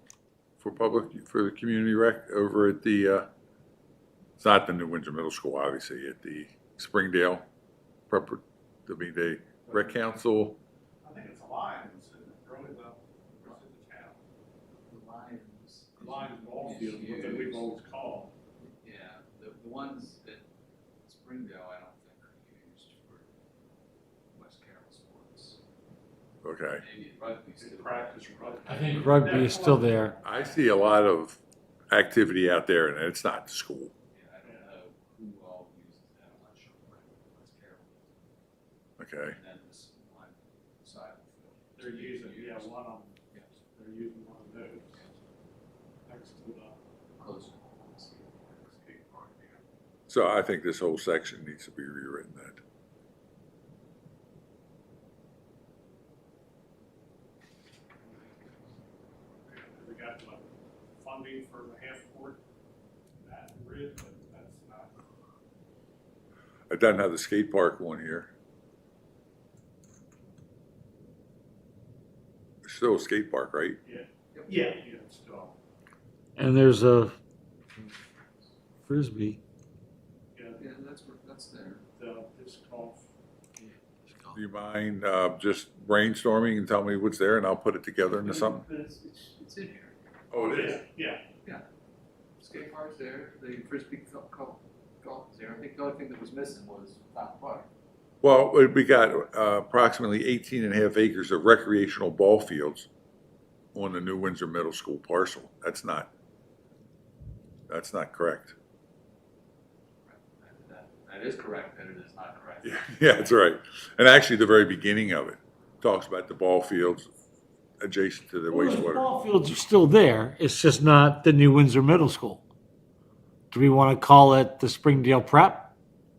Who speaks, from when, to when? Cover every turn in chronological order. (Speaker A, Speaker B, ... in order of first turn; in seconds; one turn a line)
Speaker A: 0.6-3.3
Speaker A: 4.4-7.4
Speaker A: 8.1-10.6
Speaker B: 9.7-10.0
Speaker B: 11.0-14.2
Speaker C: 14.9-17.7
Speaker B: 16.0-18.3
Speaker C: 18.6-20.4
Speaker C: 21.0-23.3
Speaker C: 24.3-25.6
Speaker A: 26.4-26.8
Speaker C: 26.7-29.5
Speaker B: 27.6-30.2
Speaker D: 28.6-30.2
Speaker A: 30.2-31.4
Speaker A: 31.9-33.9
Speaker C: 34.1-38.1
Speaker A: 39.0-39.4
Speaker C: 39.2-42.8
Speaker B: 41.8-43.2
Speaker C: 43.3-43.6
Speaker B: 43.7-45.0
Speaker B: 46.0-46.8
Speaker C: 47.2-49.6
Speaker A: 50.1-52.6
Speaker B: 59.4-62.4
Speaker B: 63.1-65.0
Speaker A: 66.7-68.3
Speaker A: 72.6-73.8
Speaker B: 73.8-75.6
Speaker C: 74.3-74.6
Speaker D: 76.3-77.1
Speaker D: 78.8-79.4
Speaker B: 80.3-80.6
Speaker C: 80.6-81.8
Speaker B: 82.0-83.1
Speaker D: 83.6-84.4
Speaker A: 84.3-88.6
Speaker C: 88.1-89.9
Speaker A: 90.3-90.8
Speaker B: 90.4-91.2
Speaker C: 92.4-97.7
Speaker A: 98.2-102.9
Speaker A: 103.7-106.1
Speaker A: 107.7-108.5
Speaker C: 110.0-112.8
Speaker A: 112.6-117.1
Speaker A: 117.8-119.1
Speaker D: 118.5-122.4
Speaker D: 123.5-125.7